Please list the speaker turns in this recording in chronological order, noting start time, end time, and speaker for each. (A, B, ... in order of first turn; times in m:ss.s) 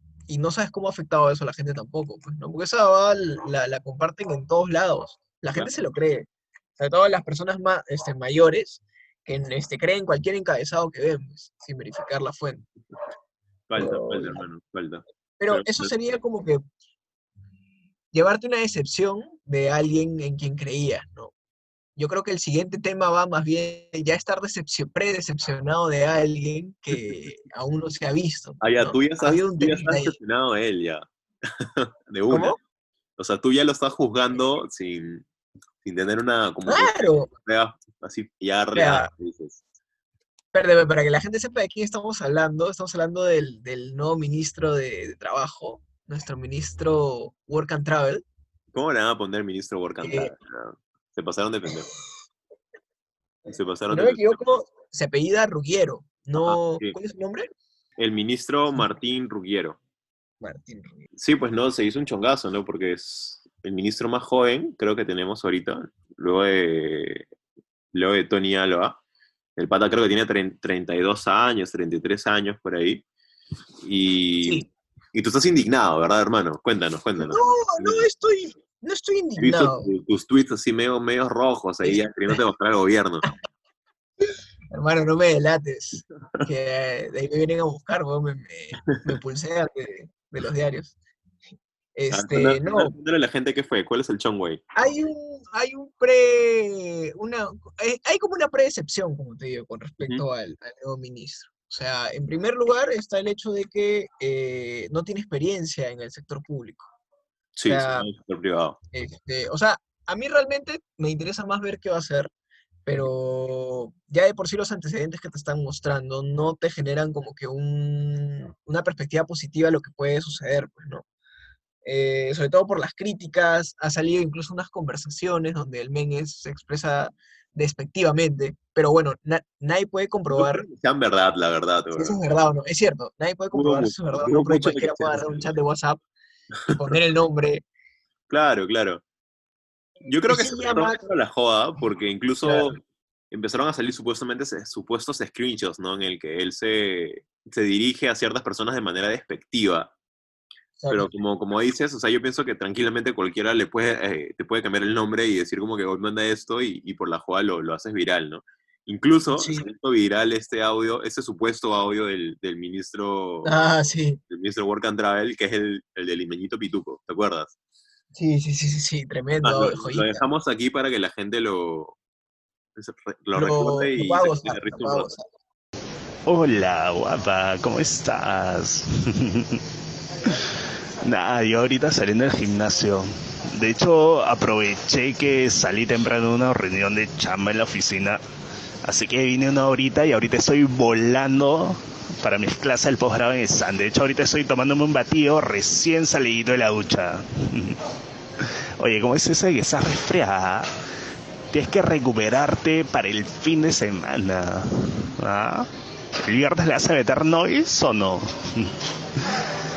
0:00.3-0:06.3 A
0:06.8-0:12.7 A
0:13.7-0:15.9 B
0:13.8-0:14.4 A
0:15.4-0:16.6 A
0:18.1-0:21.3 A
0:22.0-0:30.2 A
0:28.6-0:32.5 B
0:32.3-0:32.6 A
0:33.2-0:35.3 B
0:35.8-0:39.6 B
0:36.7-0:37.3 A
0:38.8-0:39.1 A
0:40.5-0:48.2 A
0:48.7-0:51.9 B
0:50.0-0:50.3 A
0:53.5-0:54.4 B
0:53.9-0:57.5 A
0:56.4-0:56.9 B
0:58.0-0:59.8 B
1:00.4-1:01.0 A
1:01.2-1:07.3 B
1:07.9-1:09.0 B
1:09.6-1:13.0 B
1:13.8-1:18.0 B
1:17.2-1:19.9 A
1:19.4-1:23.3 B
1:24.7-1:31.0 A
1:32.0-1:32.9 A
1:32.1-1:34.6 B
1:34.8-1:46.9 A
1:47.6-1:48.8 B
1:47.7-1:48.1 A
1:48.9-1:52.3 A
1:52.9-2:01.0 A
2:01.8-2:10.7 A
2:10.3-2:12.2 B
2:12.0-2:16.0 A
2:13.5-2:15.4 B
2:16.7-2:17.6 A
2:18.3-2:19.0 B
2:20.0-2:22.8 B
2:20.3-2:21.0 A
2:22.4-2:22.7 A
2:23.3-2:29.9 B
2:30.8-2:31.1 A
2:30.9-2:43.5 B
2:39.4-2:39.7 A
2:43.4-2:44.2 A
2:44.3-2:47.6 B
2:48.1-2:50.2 A
2:49.4-2:52.0 B
2:52.8-2:55.1 B
2:53.3-2:55.2 A
2:56.3-2:59.6 C
3:01.0-3:08.2 C
3:08.8-3:17.8 C
3:18.4-3:20.7 C
3:21.5-3:25.7 C
3:26.3-3:29.4 C